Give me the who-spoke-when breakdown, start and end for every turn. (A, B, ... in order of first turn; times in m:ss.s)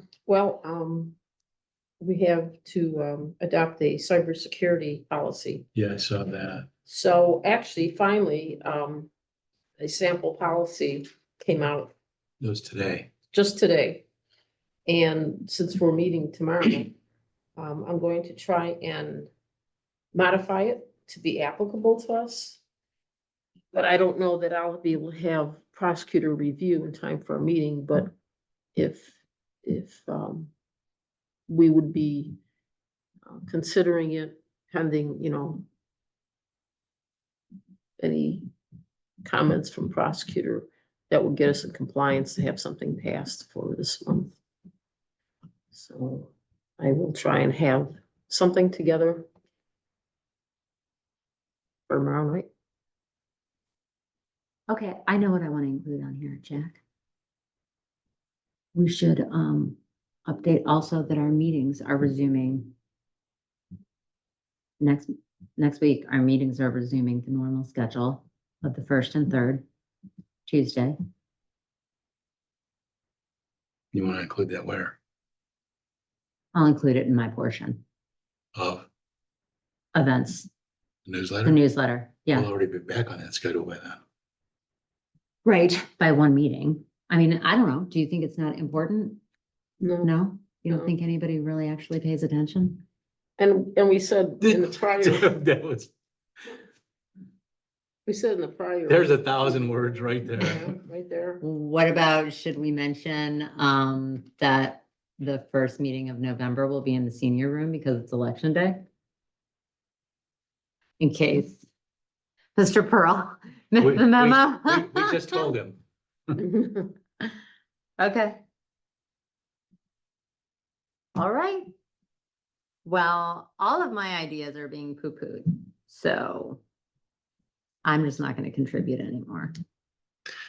0:00.3-0:01.2 A
0:02.0-0:05.6 A
0:05.7-0:06.7 B
0:06.8-0:09.1 A
0:09.8-0:11.9 A
0:12.4-0:13.1 B
0:13.3-0:14.0 A
0:14.9-0:17.0 A
0:17.6-0:19.3 A
0:20.1-0:22.6 A
0:23.7-0:28.1 A
0:28.8-0:30.5 A
0:31.5-0:32.4 A
0:33.3-0:35.7 A
0:38.0-0:38.5 A
0:39.2-0:44.4 A
0:45.7-0:49.3 A
0:51.9-0:52.5 A
0:54.7-0:56.8 C
0:58.7-1:02.7 C
1:04.8-1:09.6 C
1:10.4-1:11.0 C
1:13.9-1:15.0 B
1:16.5-1:17.8 C
1:18.6-1:18.9 B
1:19.9-1:20.5 C
1:21.1-1:21.6 B
1:21.4-1:22.5 C
1:22.3-1:24.0 B
1:25.4-1:29.2 C
1:29.8-1:30.1 A
1:30.0-1:32.8 C
1:33.4-1:35.4 A
1:34.4-1:35.9 B
1:38.1-1:39.6 A
1:38.9-1:40.7 B
1:40.4-1:41.4 A
1:41.4-1:48.9 C
1:51.0-1:51.6 C
1:52.6-1:55.5 C
1:53.8-1:56.4 B
1:58.0-1:58.4 C
2:01.1-2:01.7 C
2:02.8-2:06.6 C
2:07.8-2:09.5 C